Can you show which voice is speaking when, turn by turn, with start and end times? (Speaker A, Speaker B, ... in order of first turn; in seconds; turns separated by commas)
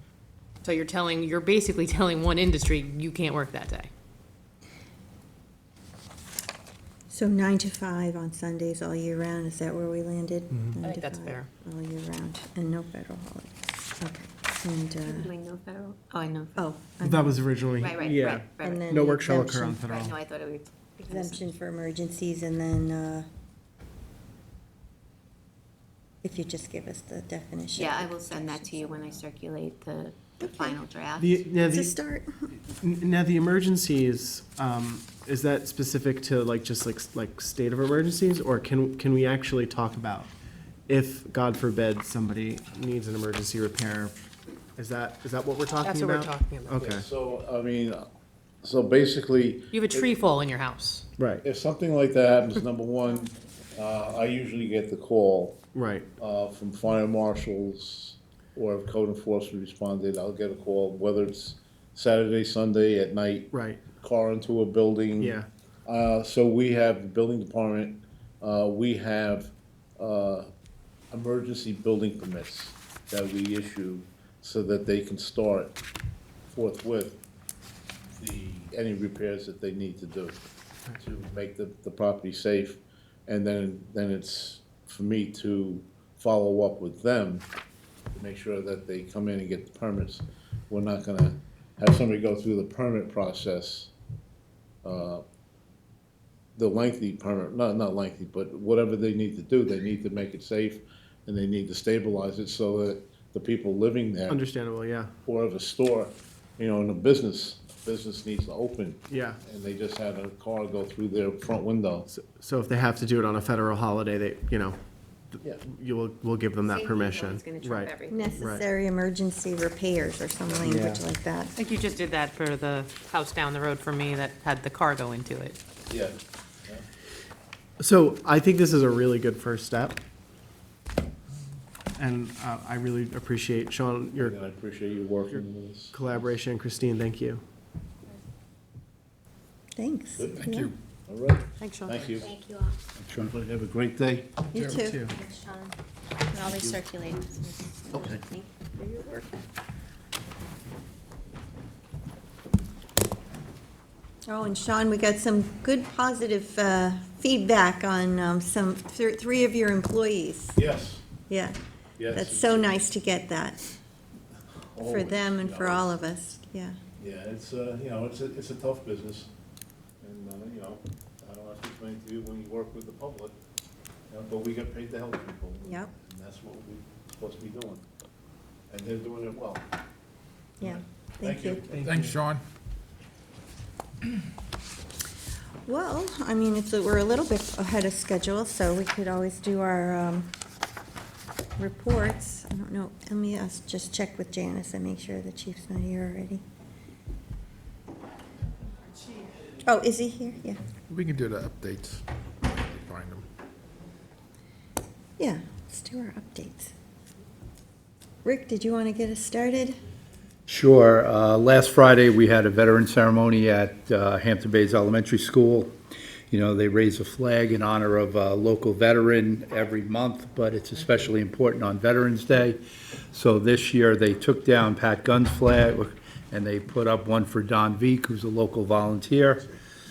Speaker A: 0.6-3.9, Speaker B: 7.1-15.3, Speaker A: 10.8-11.5, Speaker C: 15.1-16.7, Speaker B: 16.6-17.4, Speaker D: 17.0-20.1, Speaker C: 17.8-19.2, Speaker B: 18.6-19.9, Speaker C: 19.8-21.4, Speaker B: 21.0-23.3, Speaker B: 26.2-29.2, Speaker C: 27.8-31.5, Speaker B: 30.4-30.8, Speaker D: 31.2-32.0, Speaker B: 31.6-32.5, Speaker D: 32.7-40.3, Speaker D: 40.9-44.2, Speaker D: 44.8-47.1, Speaker A: 45.8-46.8, Speaker E: 46.8-48.1, Speaker E: 48.6-50.1, Speaker A: 49.7-51.1, Speaker D: 51.2-51.4, Speaker E: 51.4-55.6, Speaker D: 55.8-56.1, Speaker E: 56.2-70.5, Speaker D: 63.5-63.8, Speaker D: 65.2-65.5, Speaker E: 71.1-75.8, Speaker E: 76.5-77.2, Speaker E: 78.2-80.4, Speaker E: 81.0-87.5, Speaker E: 88.2-93.9, Speaker E: 94.8-95.2, Speaker E: 96.6-104.4, Speaker D: 104.3-105.1, Speaker E: 105.3-112.1, Speaker D: 109.1-109.4, Speaker D: 112.1-114.8, Speaker D: 115.3-118.6, Speaker C: 116.7-118.6, Speaker B: 118.1-121.5, Speaker D: 120.6-121.0, Speaker A: 121.5-125.6, Speaker E: 125.9-126.8, Speaker D: 127.8-130.0, Speaker D: 132.0-134.4, Speaker E: 134.2-135.9, Speaker D: 135.3-137.4, Speaker B: 139.8-140.7, Speaker F: 140.4-140.7, Speaker E: 141.1-142.4, Speaker A: 141.6-142.0, Speaker C: 142.2-142.7, Speaker G: 143.0-143.3, Speaker E: 143.2-144.4, Speaker B: 144.5-145.1, Speaker D: 144.7-145.2, Speaker C: 145.2-145.7, Speaker E: 146.3-146.8, Speaker C: 146.3-148.5, Speaker E: 147.9-148.2, Speaker B: 148.8-149.3, Speaker B: 154.3-160.6, Speaker E: 160.6-161.1, Speaker B: 161.3-161.6, Speaker E: 162.0-162.9, Speaker B: 162.1-163.6, Speaker E: 164.8-166.0, Speaker B: 164.8-166.8, Speaker E: 167.0-169.3, Speaker E: 170.0-173.4, Speaker E: 174.1-177.8, Speaker B: 175.7-175.9, Speaker E: 178.7-179.7, Speaker B: 180.6-181.6, Speaker E: 180.6-181.9, Speaker D: 181.8-182.2, Speaker F: 181.8-182.4, Speaker B: 185.7-190.3, Speaker B: 191.6-196.4, Speaker B: 199.6-200.6, Speaker F: 200.9-203.2, Speaker B: 205.2-206.7, Speaker B: 208.2-209.8, Speaker G: 210.5-215.7, Speaker G: 216.3-222.6, Speaker G: 223.1-229.5